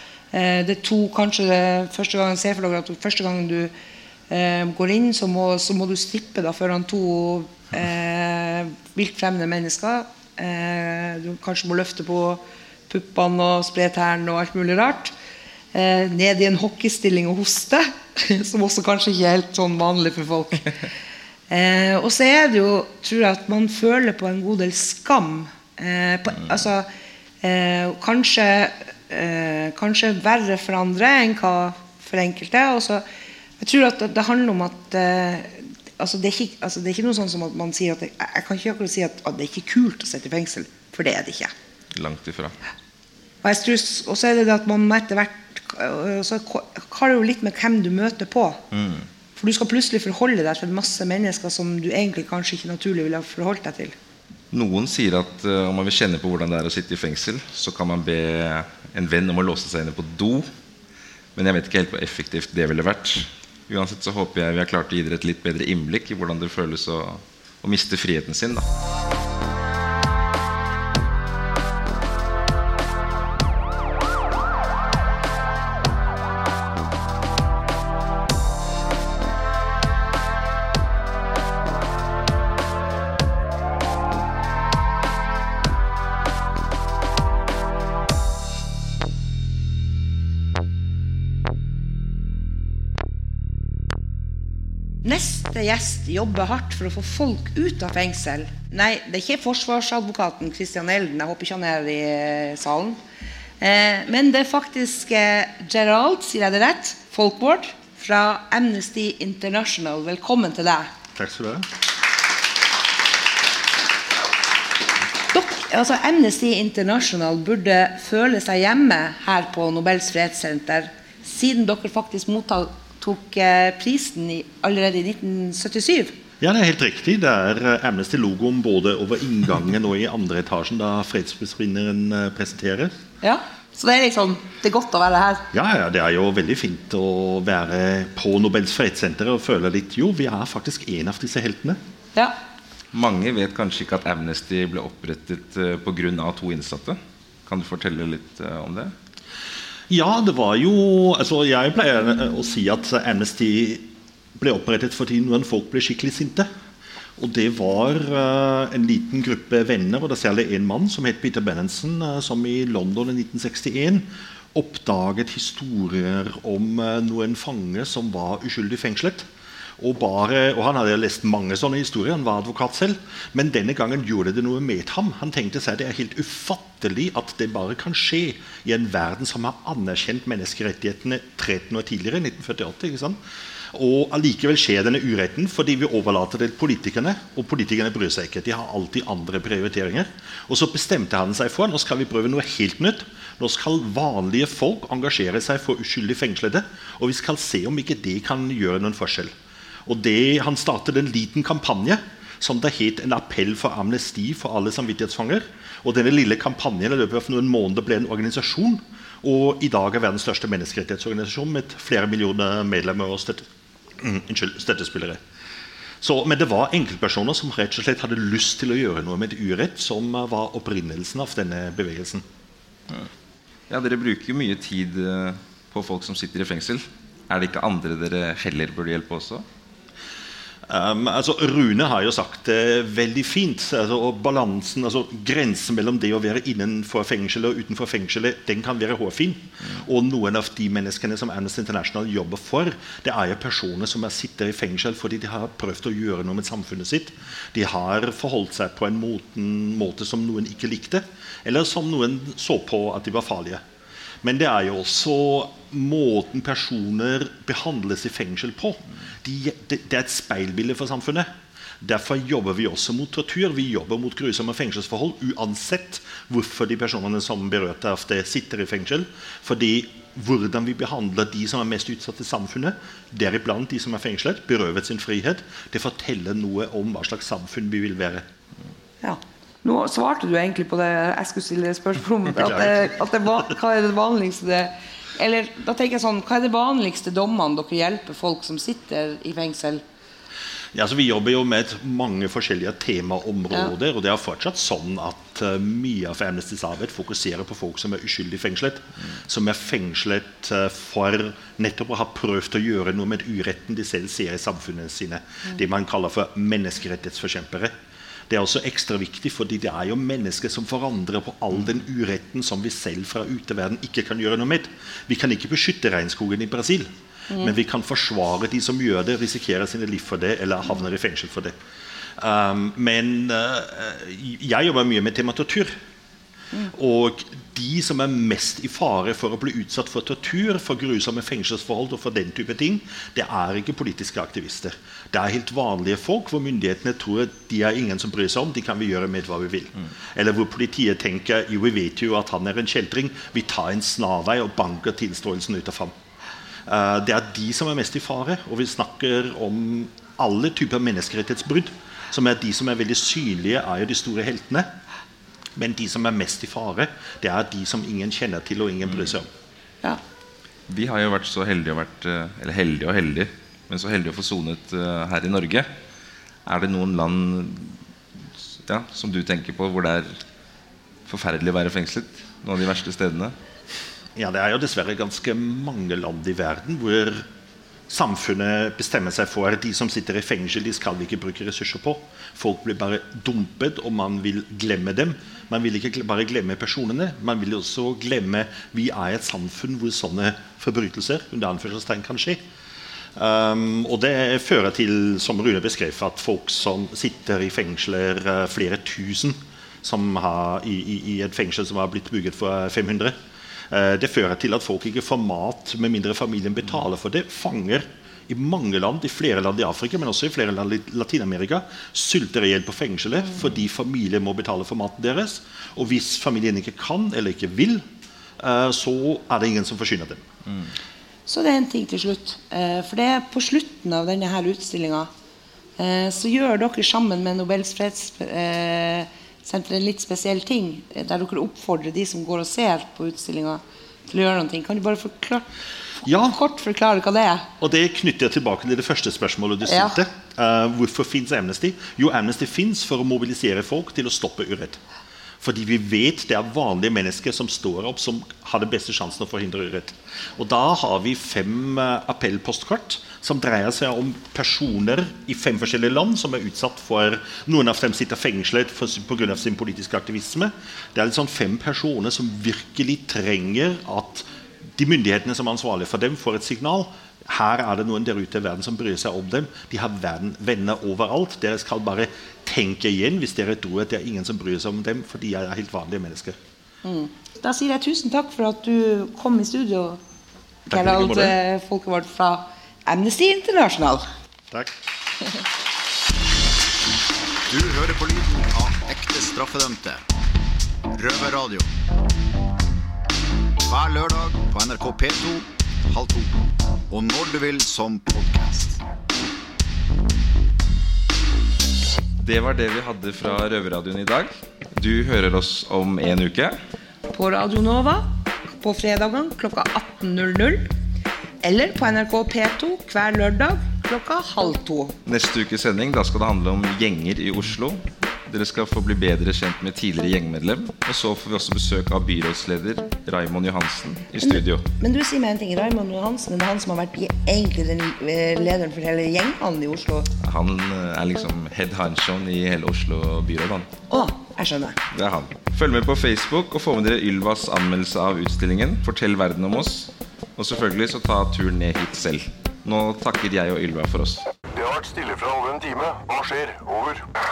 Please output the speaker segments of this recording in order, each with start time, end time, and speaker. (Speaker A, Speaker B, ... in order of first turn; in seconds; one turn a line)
Speaker A: 0.3-3.7
Speaker A: 4.3-15.1
Speaker A: 15.7-20.7
Speaker A: 21.5-26.9
Speaker A: 27.4-33.0
Speaker A: 33.6-41.5
Speaker B: 41.9-42.5
Speaker A: 43.4-48.6
Speaker B: 48.7-49.1
Speaker A: 49.4-54.0
Speaker B: 54.5-60.5
Speaker B: 61.4-68.7
Speaker A: 95.0-103.0
Speaker A: 103.6-110.9
Speaker C: 111.2-111.7
Speaker A: 115.3-126.2
Speaker C: 126.4-132.9
Speaker A: 133.2-135.5
Speaker C: 135.5-141.8
Speaker B: 142.9-148.9
Speaker C: 149.9-156.5
Speaker C: 157.2-169.3
Speaker C: 169.8-183.2
Speaker C: 183.7-199.3
Speaker C: 199.9-213.5
Speaker C: 214.0-215.2
Speaker C: 216.0-222.2
Speaker B: 223.7-229.4
Speaker C: 230.7-253.6
Speaker C: 254.2-261.3
Speaker C: 261.8-278.3
Speaker A: 279.0-289.8
Speaker C: 282.4-283.2
Speaker C: 290.7-307.7
Speaker C: 308.3-321.6
Speaker C: 322.2-325.8
Speaker C: 326.7-345.9
Speaker C: 346.7-354.7
Speaker C: 355.6-359.3
Speaker B: 360.7-365.7
Speaker B: 366.5-367.8
Speaker B: 368.5-370.2
Speaker B: 371.1-373.4
Speaker C: 374.2-377.3
Speaker C: 377.9-392.4
Speaker C: 393.2-403.1
Speaker C: 403.7-417.9
Speaker C: 418.4-420.2
Speaker A: 421.3-425.1
Speaker A: 425.8-435.5
Speaker A: 436.0-437.5
Speaker C: 436.1-436.4
Speaker C: 437.6-444.8
Speaker A: 439.6-440.0
Speaker C: 445.4-476.4
Speaker A: 476.8-480.0
Speaker C: 480.7-481.4
Speaker A: 480.7-484.1
Speaker D: 487.5-490.1
Speaker D: 490.9-491.7
Speaker D: 493.6-498.8
Speaker B: 502.2-506.6
Speaker A: 507.1-510.7
Speaker A: 511.4-515.0
Speaker B: 515.1-524.6
Speaker A: 524.2-530.1
Speaker B: 530.2-533.7
Speaker A: 533.9-534.8
Speaker B: 534.9-544.3
Speaker E: 544.5-547.1